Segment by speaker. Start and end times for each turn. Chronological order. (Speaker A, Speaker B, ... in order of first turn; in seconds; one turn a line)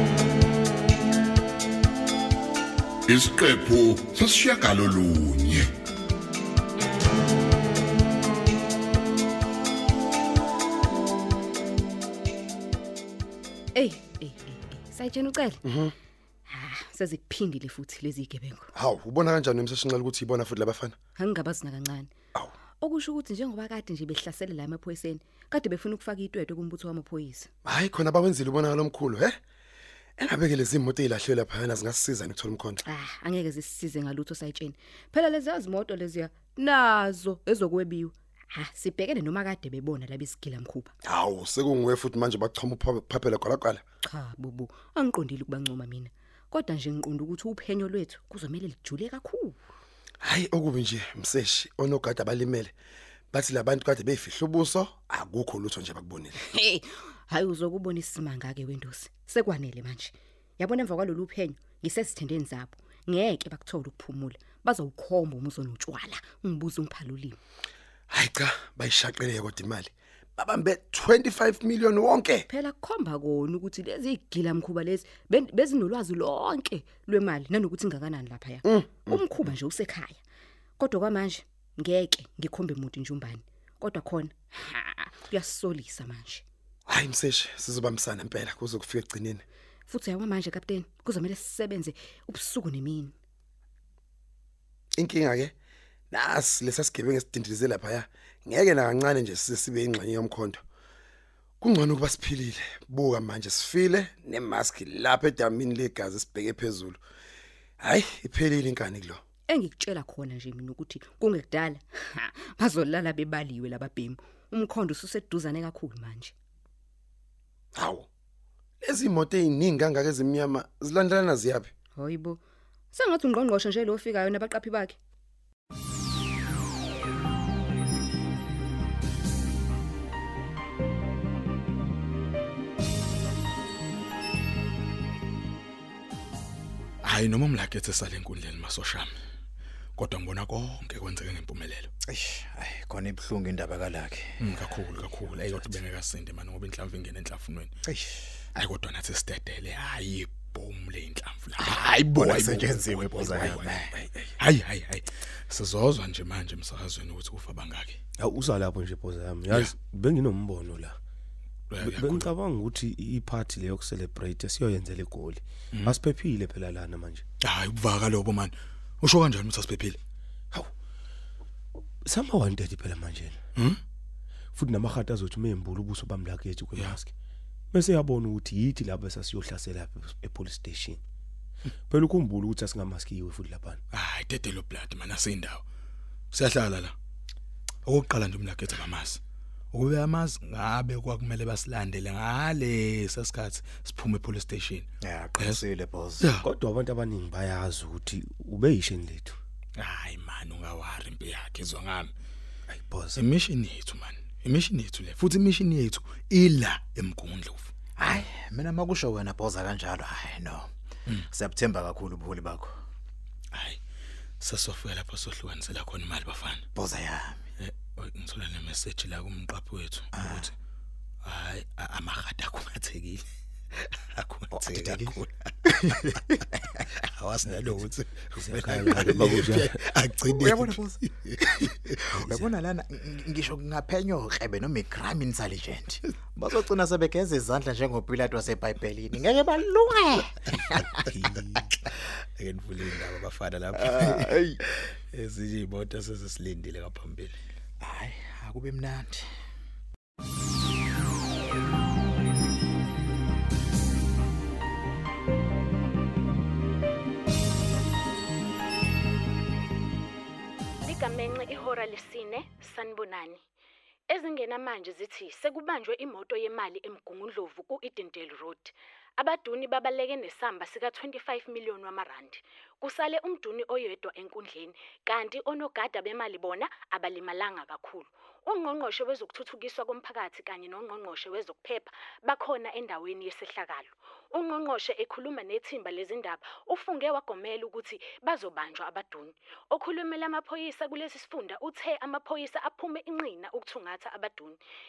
Speaker A: 3.1-5.7
Speaker B: 13.7-15.6
Speaker C: 15.6-15.9
Speaker B: 16.5-18.7
Speaker C: 18.8-20.9
Speaker B: 21.2-22.1
Speaker B: 22.8-27.5
Speaker C: 27.6-29.4
Speaker C: 30.2-32.8
Speaker B: 32.8-40.9
Speaker C: 41.0-43.8
Speaker B: 44.0-49.6
Speaker C: 50.2-52.7
Speaker C: 53.3-56.4
Speaker B: 56.5-67.4
Speaker C: 68.1-72.5
Speaker B: 72.5-80.2
Speaker C: 78.7-79.2
Speaker B: 80.8-86.4
Speaker C: 86.9-89.4
Speaker B: 89.9-93.2
Speaker C: 95.0-95.5
Speaker C: 96.1-100.6
Speaker C: 101.6-107.0
Speaker C: 107.8-109.2
Speaker B: 109.5-116.3
Speaker C: 117.8-118.1
Speaker C: 118.8-121.7
Speaker B: 122.0-125.0
Speaker D: 137.0-139.1
Speaker D: 139.9-141.9
Speaker E: 142.1-144.4
Speaker D: 144.4-147.7
Speaker D: 148.6-153.8
Speaker E: 151.6-153.9
Speaker C: 153.2-153.6
Speaker D: 154.4-158.0
Speaker F: 158.2-161.0
Speaker D: 159.5-159.7
Speaker D: 161.7-162.3
Speaker F: 161.8-167.2
Speaker D: 167.4-170.0
Speaker F: 172.1-173.4
Speaker F: 174.5-177.1
Speaker F: 177.7-181.0
Speaker F: 181.9-183.8
Speaker D: 183.9-185.6
Speaker D: 186.3-186.9
Speaker D: 187.8-189.2
Speaker D: 189.7-195.6
Speaker E: 195.0-196.2
Speaker D: 196.2-196.4
Speaker F: 196.4-199.4
Speaker D: 199.8-202.1
Speaker F: 202.7-203.2
Speaker D: 203.1-207.7
Speaker E: 208.0-210.7
Speaker E: 211.3-212.7
Speaker D: 213.5-213.8
Speaker D: 214.4-216.7
Speaker E: 216.8-217.4
Speaker D: 217.6-220.5
Speaker E: 220.2-220.4
Speaker D: 221.2-223.2
Speaker D: 224.2-226.4
Speaker E: 224.5-225.2
Speaker E: 225.8-226.0
Speaker D: 227.0-232.5
Speaker F: 228.3-229.8
Speaker E: 230.3-231.6
Speaker E: 232.2-240.4
Speaker F: 241.0-241.7
Speaker D: 241.8-247.4
Speaker E: 243.8-244.6
Speaker E: 247.8-249.2
Speaker G: 260.9-263.4
Speaker G: 264.1-294.6